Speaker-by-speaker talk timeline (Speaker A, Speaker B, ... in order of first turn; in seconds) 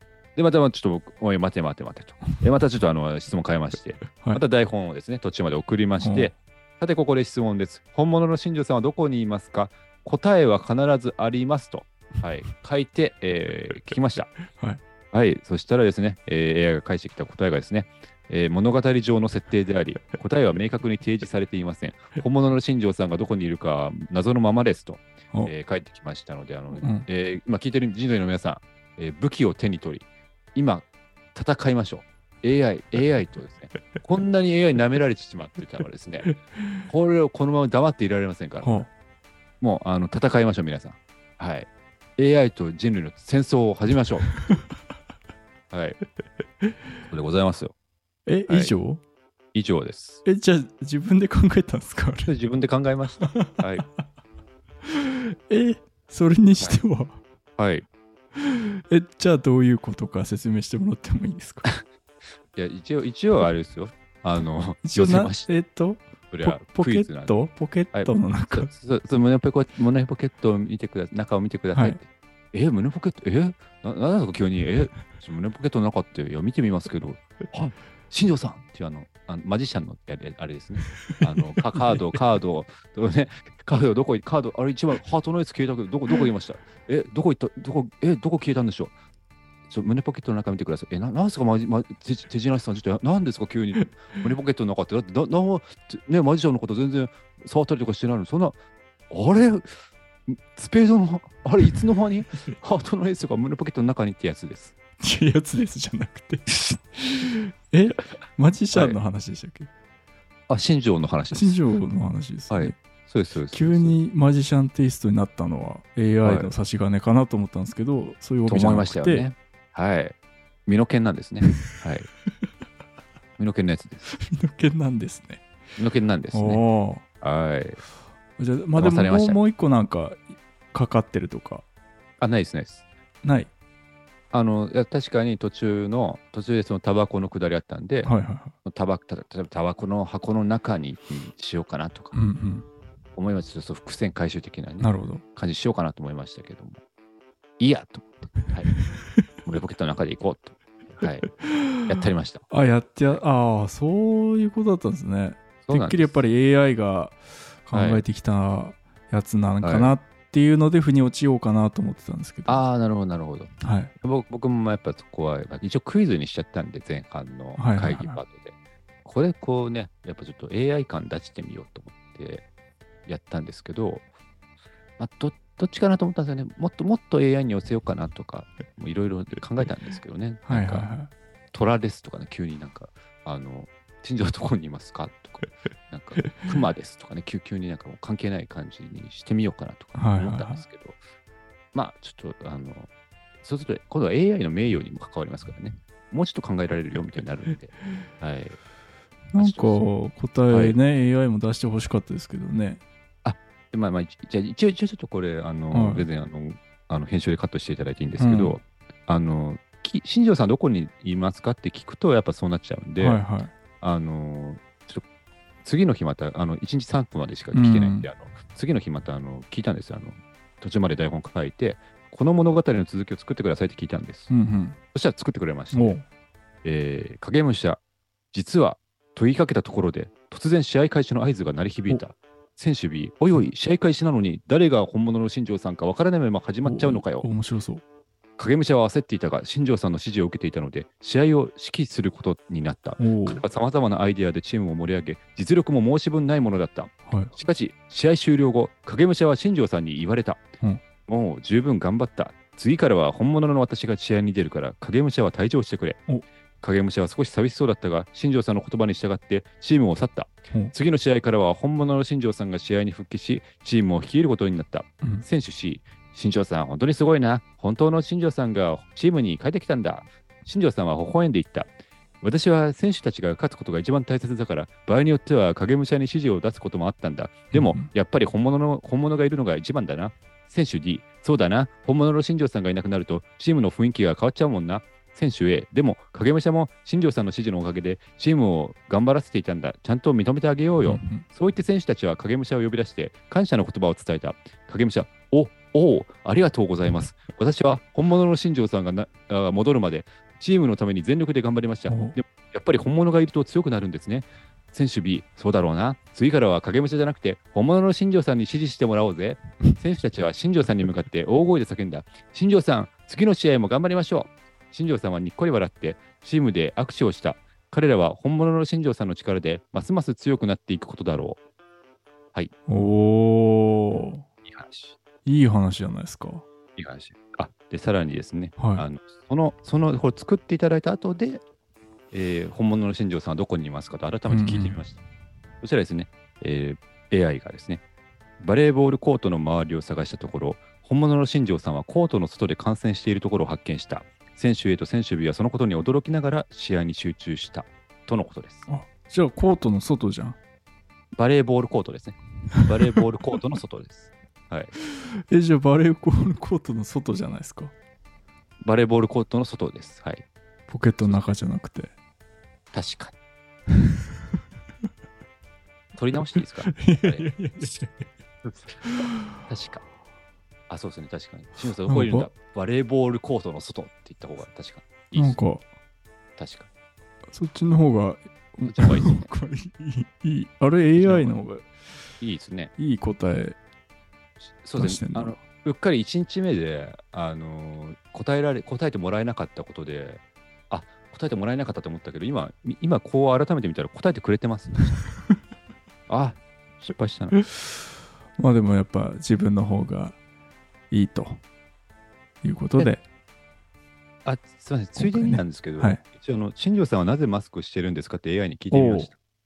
Speaker A: 0.4-14.4, 15.1-36.4, 36.9-38.9, 39.6-44.3, 45.7-46.0, 47.1-47.7, 48.5-48.7, 49.5-50.2, 52.3-53.9, 57.6-57.9, 62.5-65.5, 66.3-67.4, 67.9-88.9, 89.7-98.6, 99.1-99.8, 100.3-104.8, 108.7-109.0, 110.5-111.6, 112.5-114.0, 116.2-116.5, 118.5-120.2, 120.7-122.1, 123.4-124.1, 125.8-126.6, 127.2-127.8, 128.8-129.4, 132.2-132.8, 134.3-142.2, 143.2-146.8, 147.6-148.8, 149.4-151.3, 151.9-152.4, 155.6-156.2, 157.7-158.0, 159.6-159.9, 162.5-172.5, 173.1-174.0, 175.0-180.9, 181.5-191.0, 191.7-192.9, 193.4-198.6, 199.4-199.8, 200.5-200.8, 203.2-213.2, 213.8-215.0, 215.6-224.3, 224.9-226.0, 226.6-227.8, 228.3-237.3, 238.4-250.4, 251.1-256.0, 256.6-321.4, 324.5-325.0, 326.8-331.4, 332.1-335.0, 335.6-337.8, 338.4-348.7, 351.1-354.7, 358.6-360.3, 362.7-363.1, 365.9-367.6, 368.4-368.8, 369.4-369.8, 370.7-375.4, 376.4-376.7, 378.6-379.3, 381.0-381.4, 382.2-382.7, 384.6-395.0, 396.1-397.4, 404.2-409.2
Speaker B: 6.0-6.3, 14.5-14.8, 26.8-27.1, 38.6-38.9, 48.3-49.0, 50.2-52.3, 53.2-53.6, 54.9-57.2, 58.4-61.6, 64.8-68.7, 71.7-72.0, 81.4-82.0, 105.0-109.7, 111.3-112.8, 113.5-119.2, 124.1-125.4, 126.3-127.0, 128.4-131.7, 133.2-133.5, 138.1-138.5, 142.1-142.7, 144.8-145.2, 151.4-152.0, 152.5-162.7, 163.6-163.9, 167.6-168.2, 180.5-181.1, 189.9-190.7, 199.3-202.8, 205.7-206.1, 208.2-208.6, 213.0-213.5, 217.5-218.1, 224.3-224.8, 225.7-226.1, 236.7-237.8, 243.0-243.4, 277.5-277.9, 290.9-291.2, 301.9-302.2, 322.7-324.2, 325.2-326.4, 328.6-328.9, 334.3-334.8, 348.7-350.4, 354.8-357.7, 360.7-361.9, 366.7-368.1, 371.9-372.3, 375.1-375.6, 377.3-381.7, 382.8-383.6, 384.8-385.4, 398.4-400.2, 400.9-401.4, 402.4-403.0, 405.0-406.0, 408.7-409.1